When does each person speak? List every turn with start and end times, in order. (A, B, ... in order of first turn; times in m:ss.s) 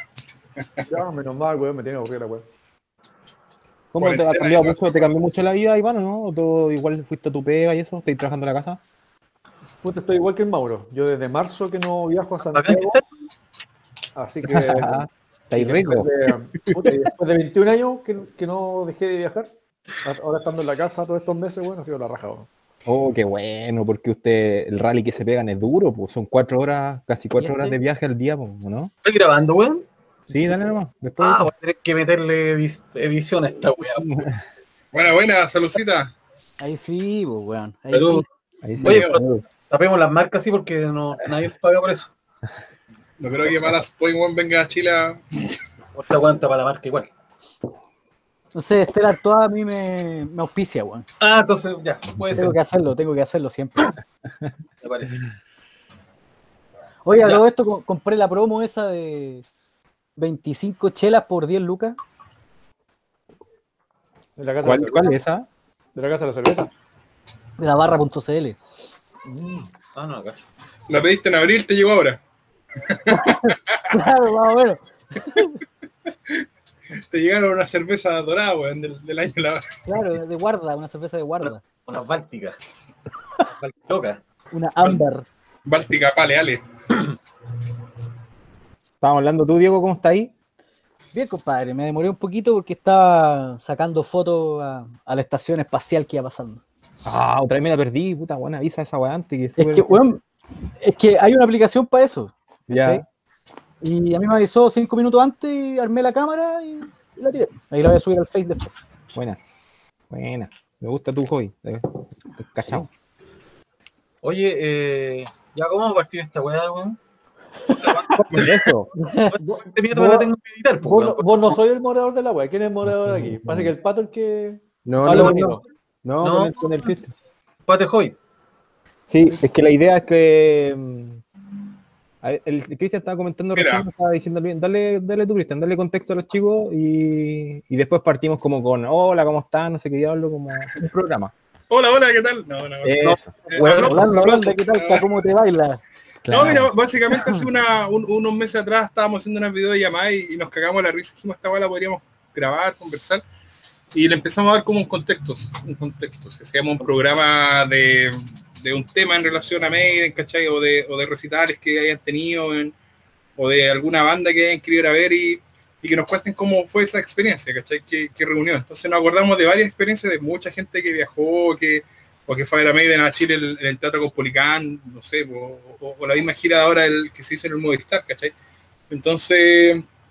0:00.6-0:00.9 A
0:00.9-0:02.4 B
0:03.9-0:08.8 C
0:04.0-0:05.1 A
0:09.8-0:13.0 B
0:12.5-0:13.0 D
0:14.2-0:22.5 B
0:14.5-0:16.1 C
0:22.9-0:28.9 C
0:27.4-0:27.8 E
0:29.0-0:29.8 D
0:30.3-0:31.5 C
0:31.2-0:34.3 D
0:34.0-0:34.3 C
0:34.9-0:36.1 A
0:36.6-0:38.3 E
0:37.9-0:38.2 D
0:38.6-0:39.4 C
0:38.8-0:42.1 D
0:43.2-0:45.2 A
0:46.0-0:47.1 D
0:48.5-0:51.1 E
0:51.2-0:52.6 D
0:52.3-0:53.9 E
0:54.8-0:55.3 D
0:57.0-0:59.4 E
0:57.2-0:57.4 D
1:00.2-1:02.0 E
1:04.4-1:05.1 B
1:04.6-1:05.5 C
1:06.0-1:06.7 B
1:07.6-1:08.6 E
1:09.3-1:09.7 B
1:10.0-1:10.4 D
1:10.9-1:12.2 A
1:12.9-1:13.8 A
1:13.1-1:15.6 E
1:17.1-1:19.6 A
1:19.9-1:21.6 E
1:21.4-1:22.6 D
1:23.5-1:24.2 D
1:24.5-1:25.3 E
1:25.7-1:26.6 A
1:29.0-1:30.3 C
1:31.1-1:36.6 E
1:37.0-1:40.0 C
1:39.6-1:40.2 E
1:40.8-1:43.0 E
1:42.7-1:43.0 C
1:43.8-1:48.7 E
1:49.1-1:49.4 C
1:50.1-1:52.9 C
1:54.2-1:57.0 D
1:57.7-1:58.6 D
1:58.3-1:58.9 C
1:59.0-1:59.4 E
1:59.3-2:01.6 D
1:59.4-2:05.6 B
2:02.9-2:03.7 C
2:04.8-2:07.1 C
2:05.1-2:05.5 D
2:05.1-2:05.4 E
2:06.2-2:06.9 D
2:07.7-2:08.2 D
2:09.1-2:11.2 C
2:12.2-2:21.3 C
2:13.6-2:13.9 A
2:21.7-2:25.1 A
2:22.8-2:23.3 C
2:23.0-2:24.1 D
2:23.8-2:27.5 E
2:26.3-2:33.2 A
2:33.9-2:42.8 A
2:43.4-2:58.3 A
2:58.9-2:59.8 A